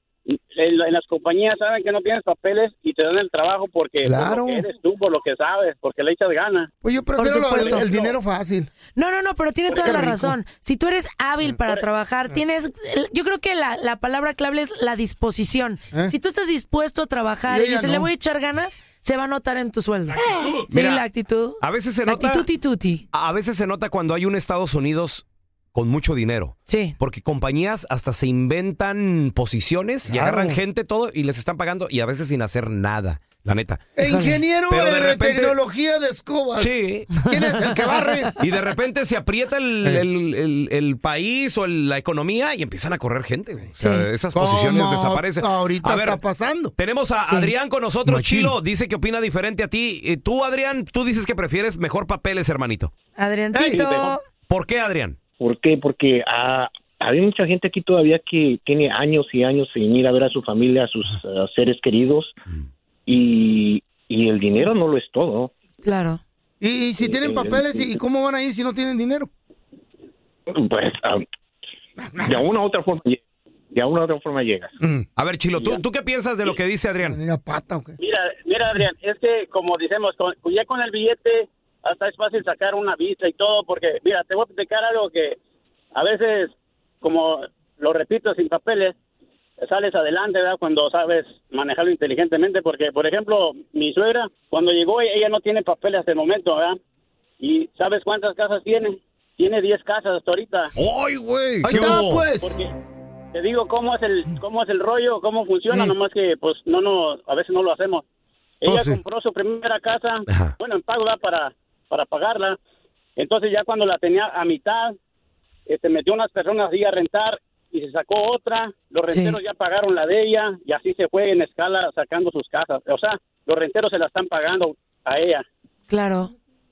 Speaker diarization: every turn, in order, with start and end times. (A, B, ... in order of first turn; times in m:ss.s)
0:00.3-0:06.7 A
0:04.0-0:04.6 B
0:06.8-0:08.7 B
0:07.2-0:07.9 C
0:07.6-0:08.1 A
0:08.9-0:23.0 C
0:09.7-0:10.4 B
0:17.5-0:18.1 B
0:20.1-0:20.6 B
0:20.7-0:21.0 D
0:21.6-0:22.4 D
0:23.1-0:33.9 D
0:26.7-0:26.9 C
0:30.1-0:30.6 B
0:34.0-0:38.3 B
0:34.0-0:34.4 C
0:34.7-0:35.6 D
0:36.6-0:37.2 D
0:37.3-0:38.1 C
0:38.4-0:46.2 D
0:43.7-0:46.7 B
0:46.8-0:52.9 D
0:48.0-0:48.6 B
0:53.2-0:54.2 C
0:53.5-0:53.8 B
0:53.7-0:54.2 A
0:54.5-0:55.2 D
0:55.4-1:02.3 E
1:03.1-1:05.5 E
1:05.8-1:06.2 C
1:06.6-1:09.3 B
1:07.0-1:08.0 E
1:10.5-1:11.2 E
1:12.0-1:12.4 B
1:12.2-1:13.2 E
1:13.7-1:14.7 E
1:14.8-1:15.0 B
1:15.2-1:17.2 D
1:17.0-1:18.0 B
1:18.0-1:25.4 A
1:25.9-1:28.9 A
1:29.6-1:36.8 A
1:37.4-1:40.7 A
1:40.8-1:42.3 D
1:41.6-1:42.6 B
1:42.4-1:42.7 A
1:43.3-1:48.0 A
1:48.6-1:52.6 A
1:48.6-1:49.0 B
1:50.3-1:50.5 D
1:53.2-1:54.9 A
1:55.7-2:05.4 A
1:59.1-1:59.4 C
2:05.9-2:06.3 C